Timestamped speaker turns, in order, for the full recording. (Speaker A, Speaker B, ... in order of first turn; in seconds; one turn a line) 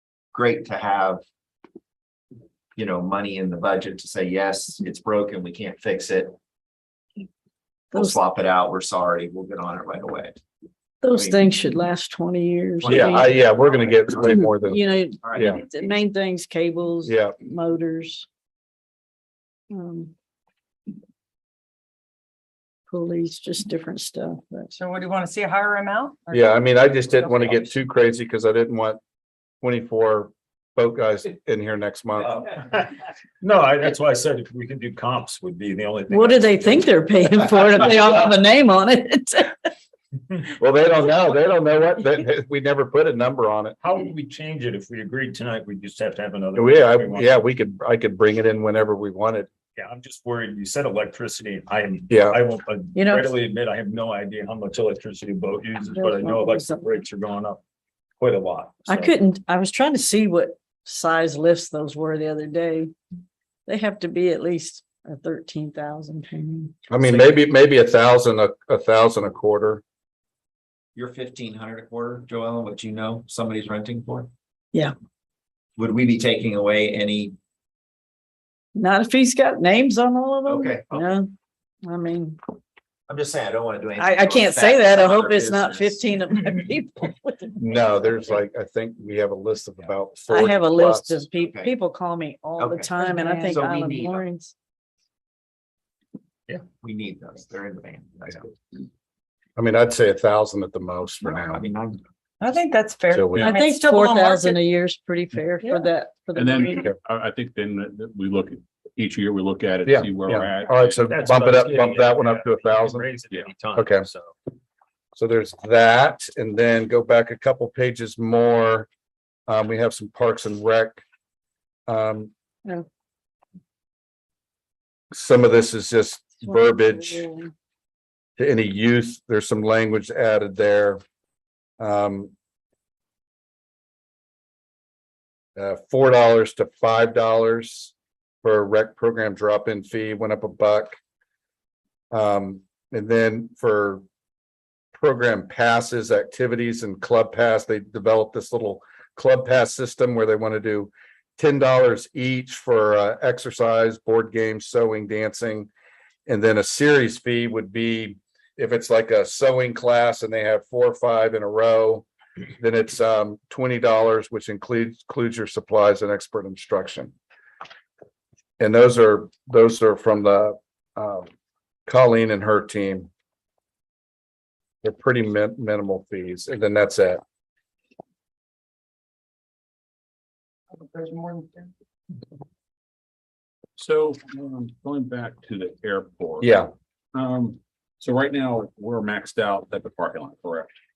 Speaker A: 0.3-1.2
Speaker A: 2.8-6.3
Speaker B: 7.9-8.2
Speaker A: 7.9-10.4
Speaker B: 11.0-13.3
Speaker A: 11.1-11.5
Speaker A: 12.8-14.4
Speaker C: 12.9-14.8
Speaker B: 14.2-18.3
Speaker A: 15.2-15.8
Speaker C: 15.3-15.6
Speaker C: 17.0-17.4
Speaker B: 19.7-20.1
Speaker B: 22.9-24.7
Speaker D: 24.8-27.7
Speaker C: 26.3-29.0
Speaker C: 29.6-32.5
Speaker E: 33.4-36.9
Speaker B: 36.1-39.6
Speaker E: 37.6-38.1
Speaker C: 40.6-43.8
Speaker E: 43.8-47.4
Speaker C: 46.6-49.5
Speaker E: 49.8-57.6
Speaker C: 52.1-52.4
Speaker B: 52.9-53.3
Speaker B: 55.9-56.9
Speaker E: 58.2-59.1
Speaker B: 58.9-62.9
Speaker B: 63.7-67.0
Speaker C: 66.9-69.8
Speaker A: 71.0-74.3
Speaker A: 75.8-77.3
Speaker B: 78.7-81.3
Speaker A: 80.5-81.1
Speaker B: 81.8-82.4
Speaker A: 83.1-86.5
Speaker B: 84.0-88.1
Speaker C: 87.6-91.2
Speaker B: 90.3-94.5
Speaker A: 91.4-91.7
Speaker A: 92.6-92.9
Speaker D: 93.0-93.6
Speaker A: 93.5-94.3
Speaker A: 96.6-98.6
Speaker C: 99.6-101.7
Speaker A: 101.5-102.0
Speaker D: 102.4-104.7
Speaker C: 103.1-103.5
Speaker B: 103.4-106.9
Speaker D: 105.6-105.9
Speaker F: 106.3-111.1
Speaker C: 109.8-113.1
Speaker E: 111.1-114.3
Speaker C: 113.8-114.1
Speaker C: 115.2-118.9
Speaker C: 119.5-121.0
Speaker C: 121.9-122.3
Speaker C: 125.1-127.3
Speaker B: 126.4-127.5
Speaker C: 128.4-131.0
Speaker C: 131.8-132.3
Speaker C: 135.6-141.0
Speaker C: 142.1-144.0
Speaker C: 144.9-155.7
Speaker C: 156.3-162.1
Speaker C: 162.6-167.1
Speaker C: 168.6-171.3
Speaker C: 171.9-173.1
Speaker C: 174.8-177.2
Speaker D: 180.7-181.7
Speaker F: 183.8-186.5
Speaker C: 186.4-186.7
Speaker F: 187.1-190.7